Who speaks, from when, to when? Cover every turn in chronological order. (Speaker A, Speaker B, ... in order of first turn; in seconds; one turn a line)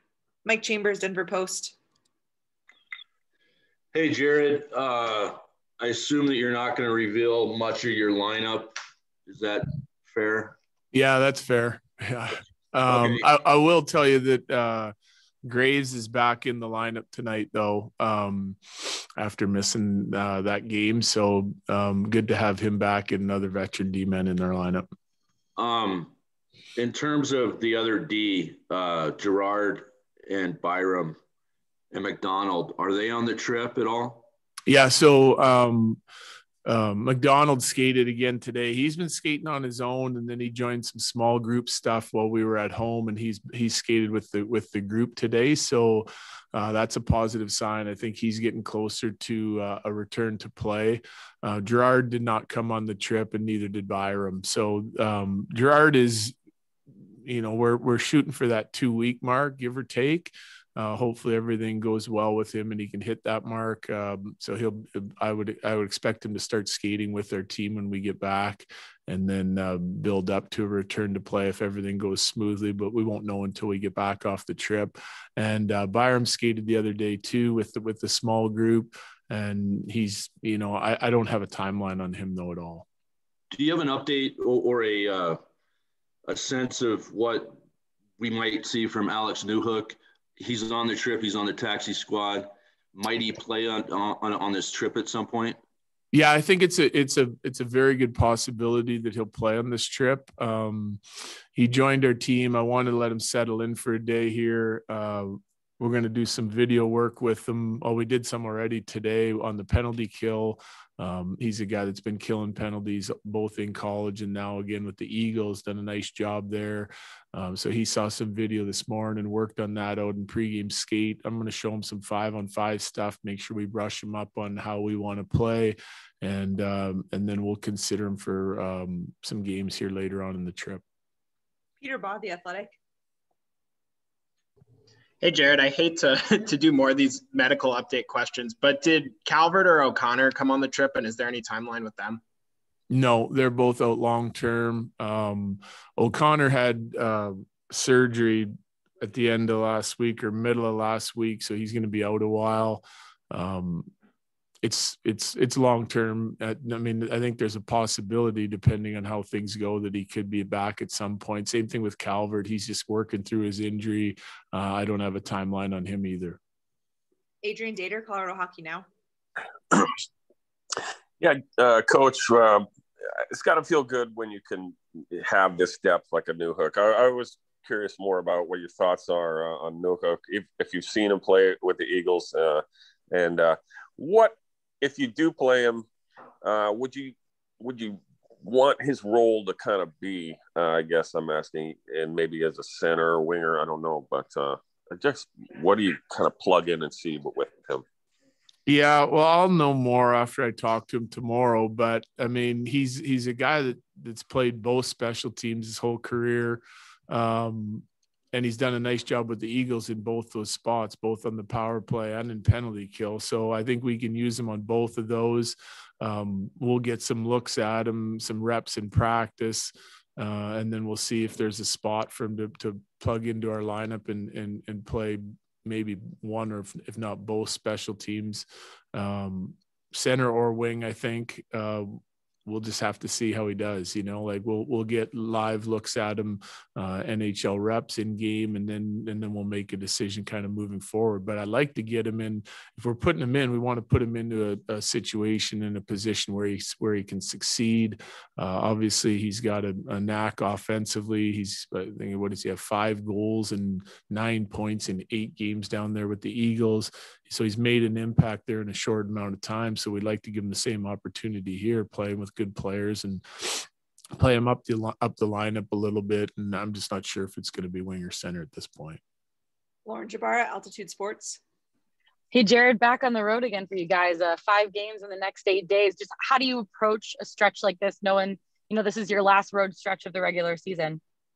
Speaker A: 0.4-1.7
Speaker B: 3.9-8.7
Speaker B: 9.2-10.5
Speaker C: 10.9-24.8
Speaker B: 12.9-13.2
Speaker B: 25.6-26.1
Speaker B: 26.8-31.2
Speaker B: 31.9-34.3
Speaker C: 34.7-36.0
Speaker C: 36.6-56.3
Speaker C: 57.2-82.8
Speaker B: 83.5-85.4
Speaker B: 86.3-87.6
Speaker B: 88.2-95.6
Speaker C: 96.1-101.0
Speaker C: 101.5-130.8
Speaker A: 131.8-132.8
Speaker D: 135.2-142.2
Speaker C: 142.9-153.9
Speaker C: 154.6-166.4
Speaker A: 167.4-168.8
Speaker E: 171.2-172.7
Speaker E: 173.3-185.8
Speaker E: 186.4-197.8
Speaker C: 198.7-269.0
Speaker A: 269.8-271.4
Speaker F: 272.3-281.0